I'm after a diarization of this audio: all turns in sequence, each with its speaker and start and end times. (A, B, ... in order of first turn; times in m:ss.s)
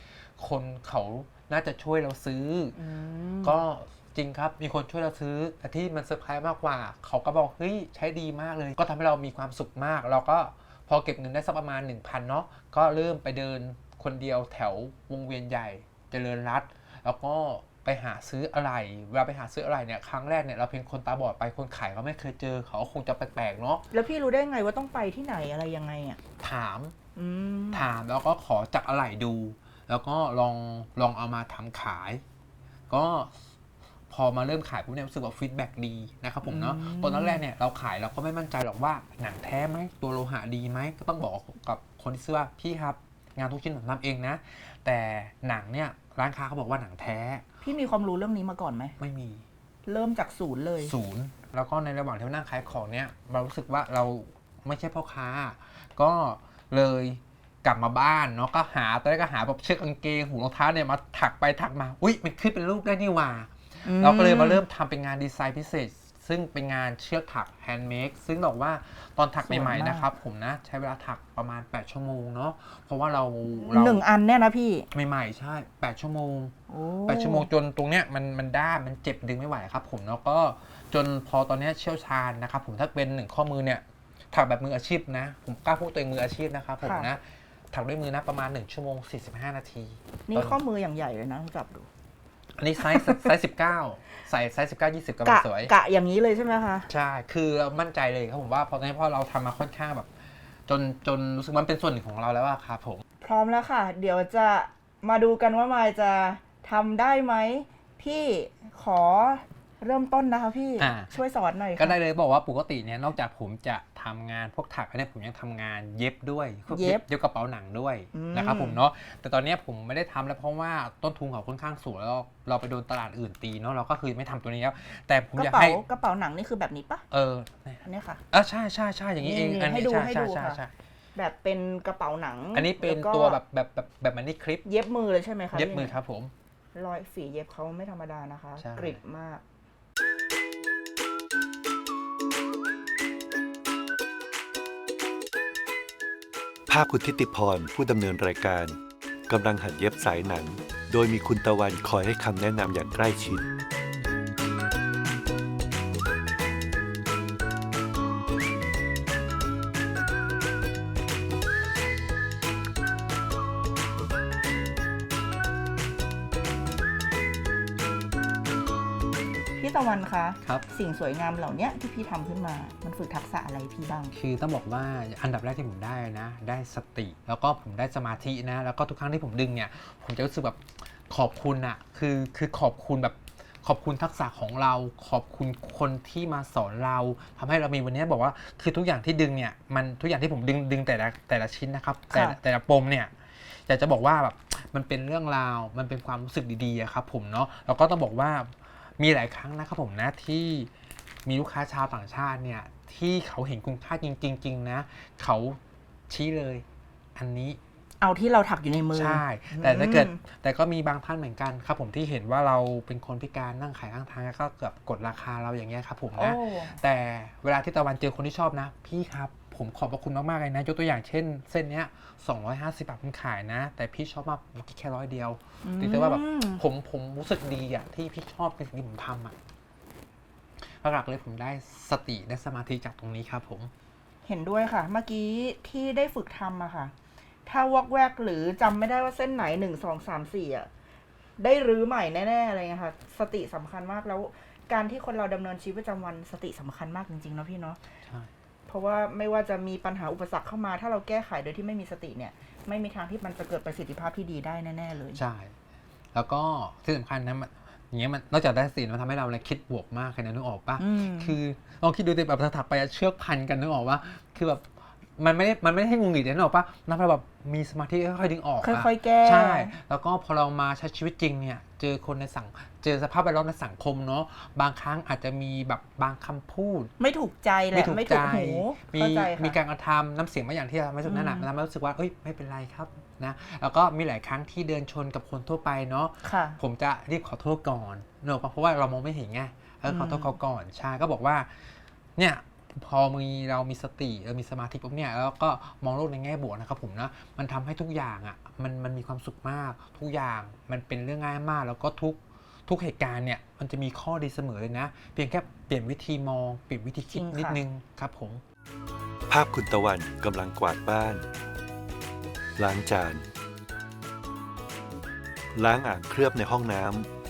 0:00.4-0:02.8 A
0:02.8-0:03.6 B
0:03.4-0:23.8 A
0:23.9-0:26.2 B
0:26.4-0:27.0 A
0:27.2-0:27.8 B
0:27.7-0:32.2 A
0:32.9-0:33.4 A
0:34.1-0:47.4 A
0:36.4-0:37.4 B
0:47.6-0:49.0 B
0:49.0-0:49.4 A
0:49.9-0:50.9 B
0:50.8-1:14.0 A
1:03.8-1:04.6 B
1:09.5-1:10.1 B
1:13.7-1:14.9 B
1:14.9-1:30.6 A
1:16.7-1:17.5 B
1:26.8-1:27.1 B
1:30.3-1:31.9 B
1:32.6-1:35.7 A
1:35.2-1:36.9 B
1:36.9-1:40.1 A
1:40.7-1:43.0 A
1:43.2-1:52.0 B
1:50.8-1:51.1 A
1:51.8-2:05.8 A
1:56.7-1:57.0 B
1:58.1-1:58.8 B
2:05.4-2:07.0 B
2:07.1-2:10.7 A
2:07.8-2:08.2 B
2:09.2-2:10.6 B
2:11.2-2:13.4 B
2:12.5-2:14.6 A
2:14.7-2:15.9 B
2:15.5-2:16.3 A
2:16.8-2:19.4 B
2:18.6-2:19.0 A
2:26.7-2:28.7 C
2:29.3-2:33.4 C
2:49.6-2:54.1 B
2:54.1-3:20.7 A
3:21.2-3:26.6 A
3:27.2-3:27.6 A
3:28.0-3:30.2 B
3:28.9-3:49.4 A
3:36.2-3:36.8 B
3:45.6-3:46.6 B
3:50.8-3:53.7 A
3:54.2-3:56.9 B
3:57.5-4:00.7 B
4:01.4-4:07.8 B
4:08.0-4:08.3 A
4:08.7-4:15.2 B
4:15.1-4:15.6 A
4:16.1-4:36.9 A
4:20.8-4:21.4 B
4:28.6-4:29.8 B
4:37.0-4:39.6 B
4:37.7-5:08.4 A
4:41.0-4:41.5 B
4:46.2-4:46.6 B
4:49.9-4:50.3 B
5:07.1-5:07.6 B
5:09.3-5:11.2 C
5:12.6-5:13.2 C
5:15.6-5:17.1 C